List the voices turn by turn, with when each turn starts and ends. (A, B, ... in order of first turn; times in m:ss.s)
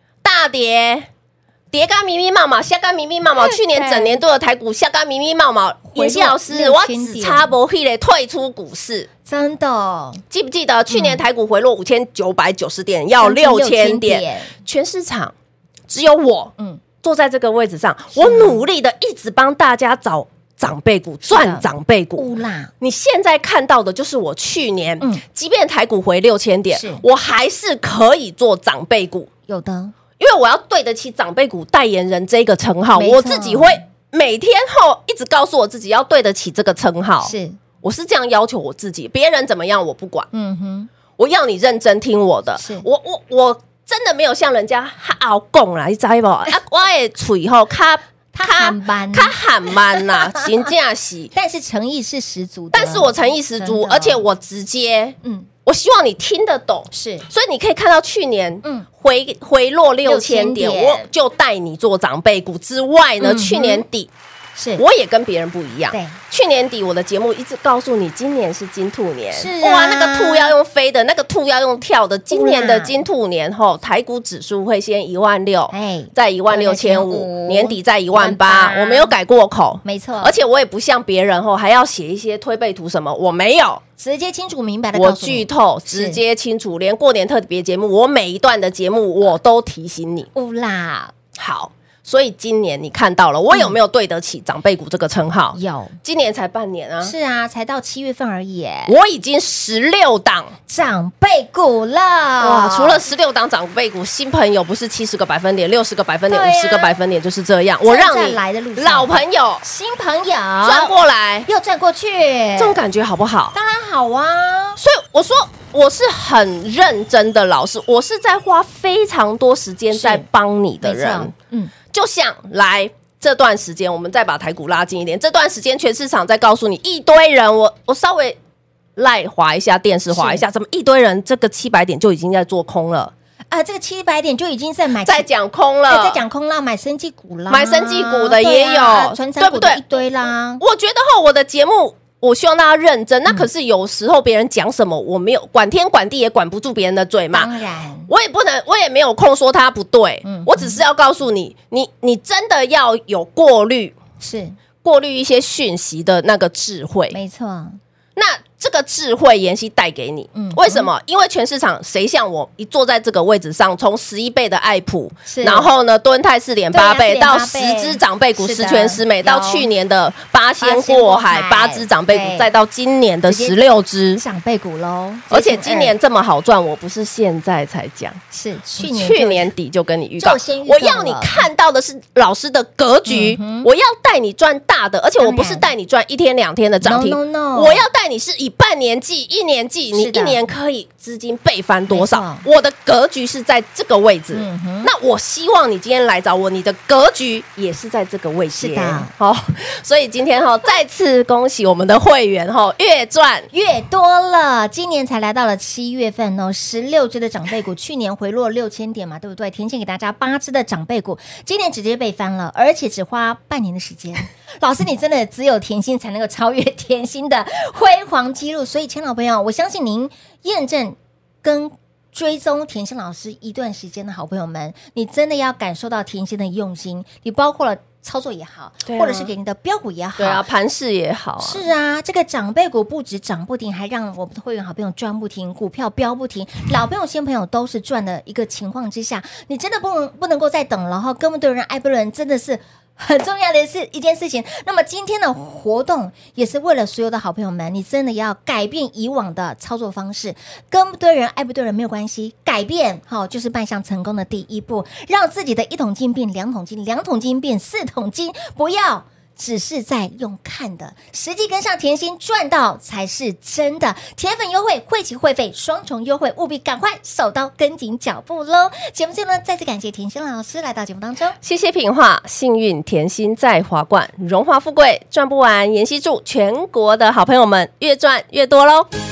0:00.2-0:01.1 A
0:01.7-0:09.1 A
0:03.4-0:04.2 B
0:05.9-0:07.5 B
0:09.2-0:10.2 B
0:10.3-0:15.3 A
0:10.9-0:11.2 B
0:13.2-0:14.5 B
0:15.9-0:22.3 A
0:18.2-0:18.6 B
0:21.2-0:21.6 B
0:22.2-0:22.7 B
0:22.8-0:29.3 A
0:26.7-0:27.0 B
0:29.5-0:29.9 B
0:30.2-0:40.3 A
0:33.0-0:33.8 B
0:37.2-0:37.6 B
0:40.3-0:40.9 B
0:41.2-0:51.3 A
0:42.6-0:42.9 B
0:48.3-0:50.5 B
0:51.3-0:54.2 B
0:52.7-1:04.1 A
0:56.9-0:57.3 B
1:00.0-1:01.1 B
1:03.2-1:03.8 B
1:04.6-1:04.8 B
1:04.8-1:23.8 A
1:05.9-1:06.2 B
1:09.3-1:10.5 B
1:12.3-1:13.0 B
1:15.7-1:19.1 B
1:19.8-1:20.3 B
1:24.0-1:26.2 B
1:25.0-1:30.3 A
1:30.3-1:31.1 B
1:31.4-1:37.1 A
1:33.5-1:33.8 B
1:35.5-1:36.0 B
1:37.0-1:38.9 B
1:38.9-1:40.5 A
1:40.7-1:43.0 B
1:42.4-1:49.6 A
1:46.3-1:47.0 B
1:47.8-1:51.0 B
1:50.6-1:51.5 A
1:51.5-1:52.8 B
1:52.6-1:53.5 A
1:53.5-1:54.8 B
1:54.8-2:01.3 A
1:59.9-2:00.2 B
2:00.8-2:01.7 B
2:01.9-2:08.4 A
2:09.0-2:13.1 A
2:10.1-2:10.4 B
2:13.5-2:15.3 B
2:15.0-2:16.2 A
2:15.9-2:20.6 B
2:17.5-2:20.0 A
2:20.6-2:27.5 A
2:27.3-2:28.1 B
2:28.1-2:34.0 A
2:30.2-2:30.8 B
2:34.2-2:34.5 B
2:34.8-2:37.2 A
2:37.1-2:37.8 B
2:38.2-2:54.2 A
2:40.3-2:40.9 B
2:45.3-2:45.7 B
2:46.7-2:49.7 B
2:50.6-2:52.5 B
2:53.2-2:53.5 B
2:54.2-2:55.9 B
2:55.3-2:58.2 A
2:58.3-2:59.5 B
2:58.8-3:23.5 A
3:00.2-3:01.5 B
3:03.1-3:03.7 B
3:05.2-3:05.7 B
3:06.8-3:07.8 B
3:09.9-3:10.4 B
3:11.9-3:12.4 B
3:14.3-3:14.9 B
3:18.6-3:19.1 B
3:23.5-3:50.4 B
3:48.9-3:49.3 A
3:50.2-3:51.7 A
3:51.4-4:31.3 B
4:31.4-4:38.9 A